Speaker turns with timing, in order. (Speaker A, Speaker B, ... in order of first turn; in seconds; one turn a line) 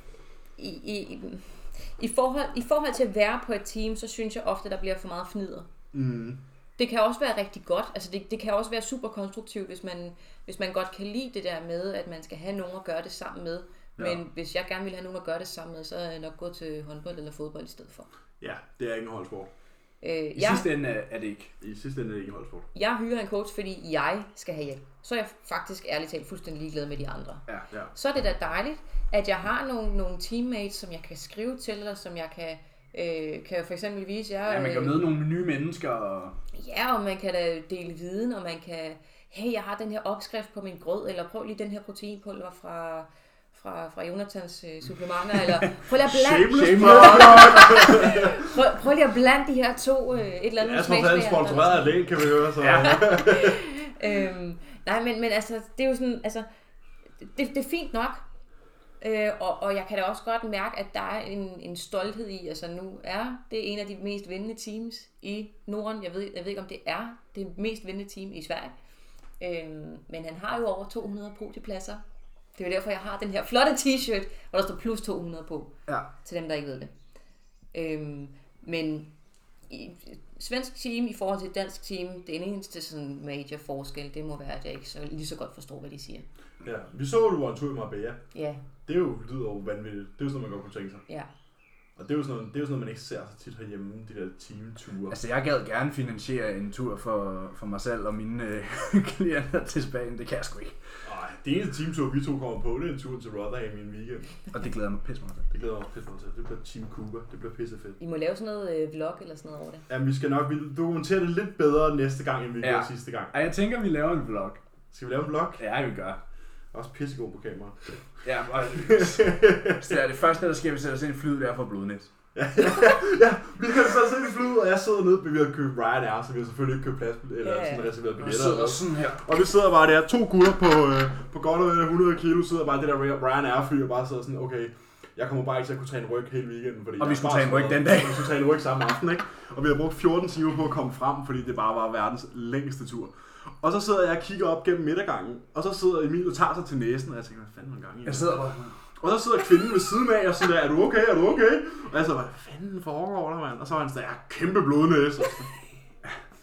Speaker A: 0.6-5.7
Speaker B: 5.9-6.4
Speaker A: 6.8-18.1
Speaker B: 18.4-19.5
Speaker A: 20.0-20.7
Speaker C: 20.4-21.5
Speaker B: 21.6-22.7
Speaker A: 22.7-35.1
Speaker C: 34.5-36.4
Speaker A: 36.5-52.1
Speaker B: 46.0-48.4
Speaker C: 46.4-48.1
Speaker B: 50.6-53.6
Speaker C: 52.6-53.0
Speaker A: 52.8-56.5
Speaker A: 57.2-58.2
Speaker A: 59.0-68.7
Speaker A: 69.4-72.0
Speaker A: 72.5-76.9
Speaker A: 77.7-79.1
Speaker A: 79.7-86.3
Speaker B: 86.6-88.3
Speaker A: 88.3-88.6
Speaker B: 88.8-91.0
Speaker B: 92.0-95.2
Speaker C: 95.1-100.8
Speaker B: 101.0-104.5
Speaker C: 104.5-105.5
Speaker B: 105.5-108.0
Speaker A: 108.0-109.9
Speaker B: 109.9-113.3
Speaker C: 112.6-114.6
Speaker B: 114.9-115.6
Speaker C: 115.6-116.2
Speaker B: 116.7-118.2
Speaker C: 118.2-122.1
Speaker B: 118.8-120.0
Speaker B: 122.3-148.4
Speaker A: 127.4-127.9
Speaker C: 128.2-129.2
Speaker C: 137.0-138.4
Speaker C: 148.1-148.8
Speaker B: 149.0-155.6